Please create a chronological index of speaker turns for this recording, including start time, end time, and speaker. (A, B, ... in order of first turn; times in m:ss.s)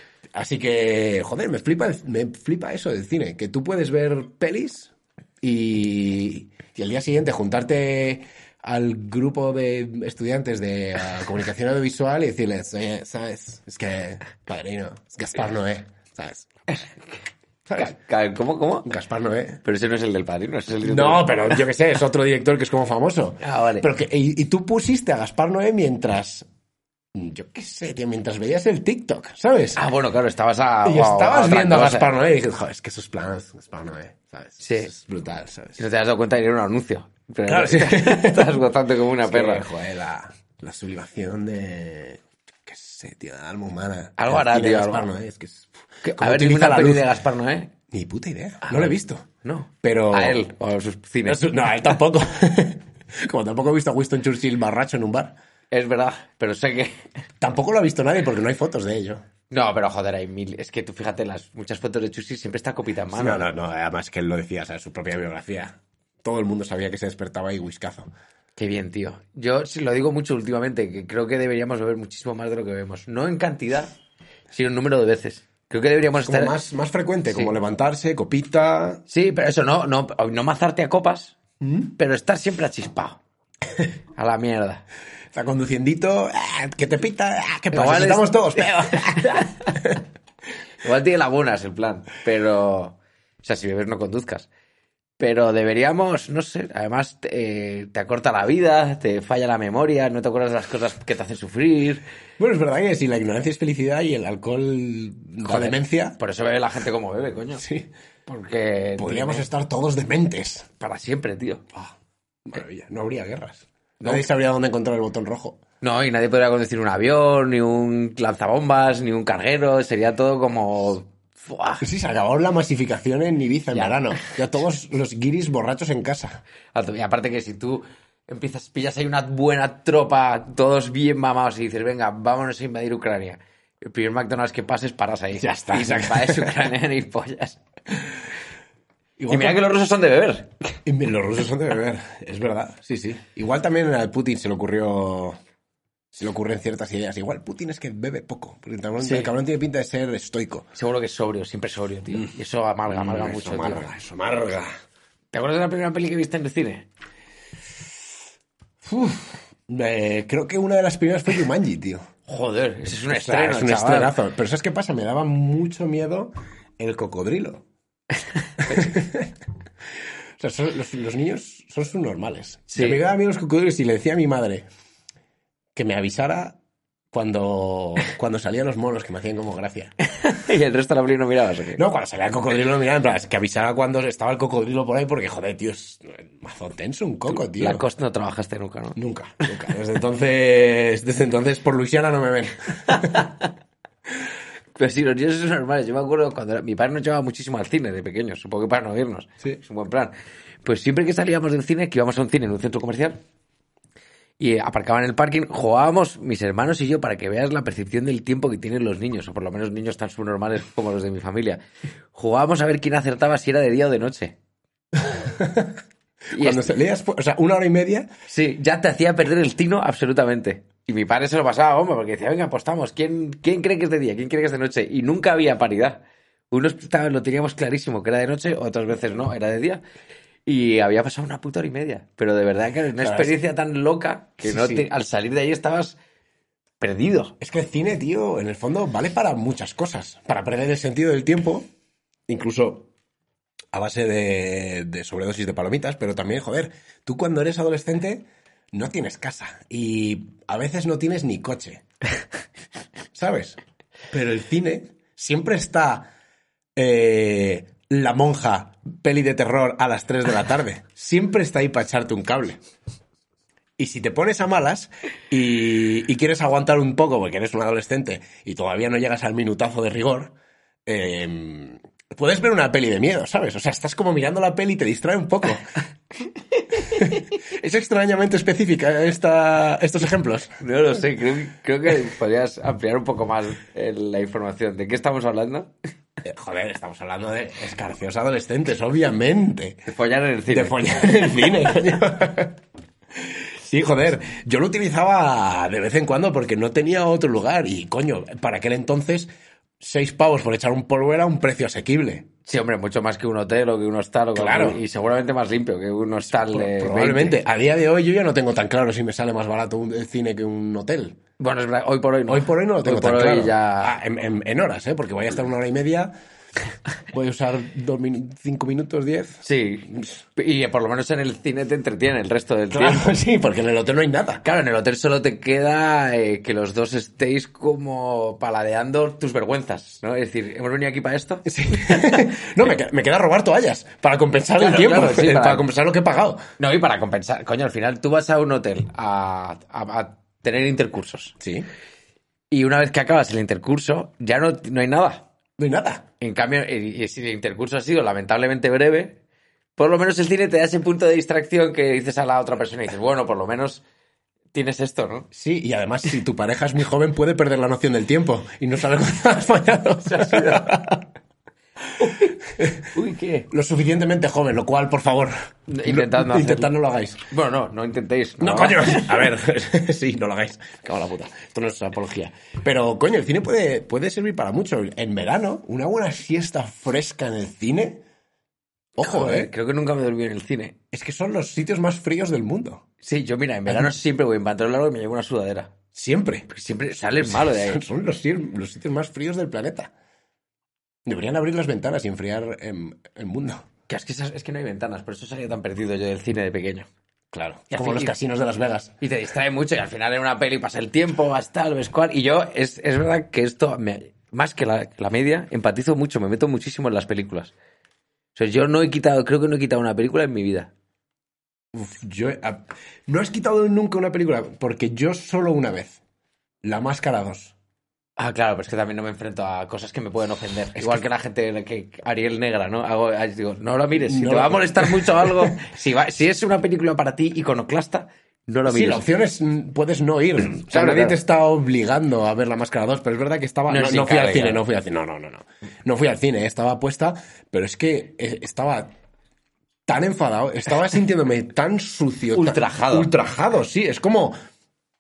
0:00.3-0:16.5 A
0:16.7-0:17.2 B
0:17.7-0:17.9 A
0:17.8-0:18.9 B
0:18.8-0:19.6 A
0:19.6-0:21.6 B
0:20.8-0:26.5 A
0:23.4-0:23.9 B
0:27.1-0:29.8 A
0:29.8-0:32.1 B
0:30.8-0:35.8 A
0:34.6-0:34.9 B
0:35.8-0:39.6 B
0:37.5-0:38.6 A
0:39.3-0:47.1 A
0:44.2-0:45.1 B
0:46.0-0:47.7 B
0:47.9-0:49.2 A
0:48.6-0:51.4 B
0:49.8-0:50.4 A
0:51.3-0:55.4 A
0:55.7-0:57.0 B
0:57.4-0:59.2 A
0:59.5-1:03.4 B
1:03.1-1:08.1 A
1:08.6-1:13.9 B
1:14.5-1:16.5 B
1:16.2-1:19.0 A
1:19.1-1:21.4 B
1:21.6-1:21.9 A
1:22.0-1:23.2 B
1:24.2-1:24.8 B
1:25.3-1:30.0 A
1:27.7-1:29.8 B
1:30.8-1:34.5 B
1:35.2-1:42.0 B
1:42.4-1:46.2 A
1:45.4-1:47.6 B
1:47.6-1:47.9 A
1:48.3-1:49.5 B
1:49.0-1:50.7 A
1:50.8-1:51.7 B
1:52.5-1:55.6 A
1:54.0-1:54.3 B
1:55.8-2:01.8 B
2:01.8-2:06.4 A
2:03.7-2:04.3 B
2:06.7-2:17.6 B
2:15.4-2:16.5 A
2:19.2-2:19.6 A
2:19.3-2:20.8 B
2:20.8-2:25.4 A
2:26.1-2:30.7 A
2:29.0-2:29.3 B
2:30.8-2:33.9 B
2:32.9-2:34.7 A
2:35.3-2:36.9 B
2:38.8-2:42.0 A
2:42.3-2:44.2 B
2:43.1-2:47.6 A
2:48.6-2:49.3 A
2:50.4-2:54.7 A
2:52.7-2:53.0 B
2:55.8-2:56.6 A
2:57.1-2:59.9 A
3:00.0-3:01.8 B
3:01.8-3:07.8 A
3:07.3-3:09.0 B
3:09.0-3:13.3 A
3:12.9-3:13.5 B
3:14.8-3:23.2 B
3:24.4-3:31.6 B
3:32.1-3:34.4 B
3:35.2-3:35.8 A
3:36.3-3:38.1 A
3:36.3-3:36.7 B
3:38.3-3:49.8 B
3:50.5-3:56.0 B
3:53.0-3:53.4 A
3:54.4-3:54.9 A
3:56.8-3:57.4 B
3:57.4-4:01.7 A
4:02.3-4:02.9 A
4:03.7-4:11.8 A
4:13.1-4:13.6 A
4:14.1-4:16.1 A
4:16.8-4:22.6 A
4:23.8-4:30.4 A
4:30.9-4:35.7 A
4:36.8-4:40.6 A
4:40.6-4:45.7 B
4:46.2-4:49.9 A
4:49.9-4:51.2 B
4:50.5-4:52.6 A
4:53.2-4:59.3 A
4:59.8-5:02.3 A
5:02.4-5:07.4 B
5:04.4-5:04.8 A
5:06.3-5:11.2 A
5:11.4-5:14.0 B
5:12.3-5:16.1 A
5:17.1-5:20.1 A
5:19.4-5:23.1 B
5:22.7-5:24.4 A
5:24.4-5:32.3 B
5:31.5-5:36.4 A
5:34.6-5:35.6 B
5:36.6-5:41.4 B
5:41.4-5:41.7 A
5:42.5-5:45.3 B
5:45.6-5:46.1 A
5:46.2-5:49.2 B
5:49.8-5:53.8 B
5:54.5-5:55.3 B
5:55.3-6:01.0 A
6:00.0-6:00.8 B
6:02.0-6:03.5 B
6:02.5-6:02.8 A
6:03.5-6:07.2 A
6:05.7-6:06.7 B
6:07.3-6:09.3 B
6:08.4-6:18.0 A
6:19.0-6:19.5 A
6:19.0-6:20.8 B
6:20.9-6:22.8 A
6:23.0-6:25.7 B
6:23.7-6:23.9 A
6:25.9-6:26.5 A
6:26.5-6:27.8 B
6:27.2-6:29.9 A
6:31.1-6:33.7 A
6:33.9-6:36.9 B
6:37.3-6:38.9 A
6:37.7-6:38.1 B
6:39.0-6:47.5 B
6:48.4-6:50.7 B
6:51.7-6:56.0 A
6:56.6-6:57.6 A
6:58.2-7:09.0 B
7:00.8-7:01.0 A
7:04.0-7:05.5 A
7:08.7-7:18.9 A
7:10.6-7:11.2 B
7:13.7-7:14.6 B
7:19.9-7:24.4 A
7:22.3-7:23.1 B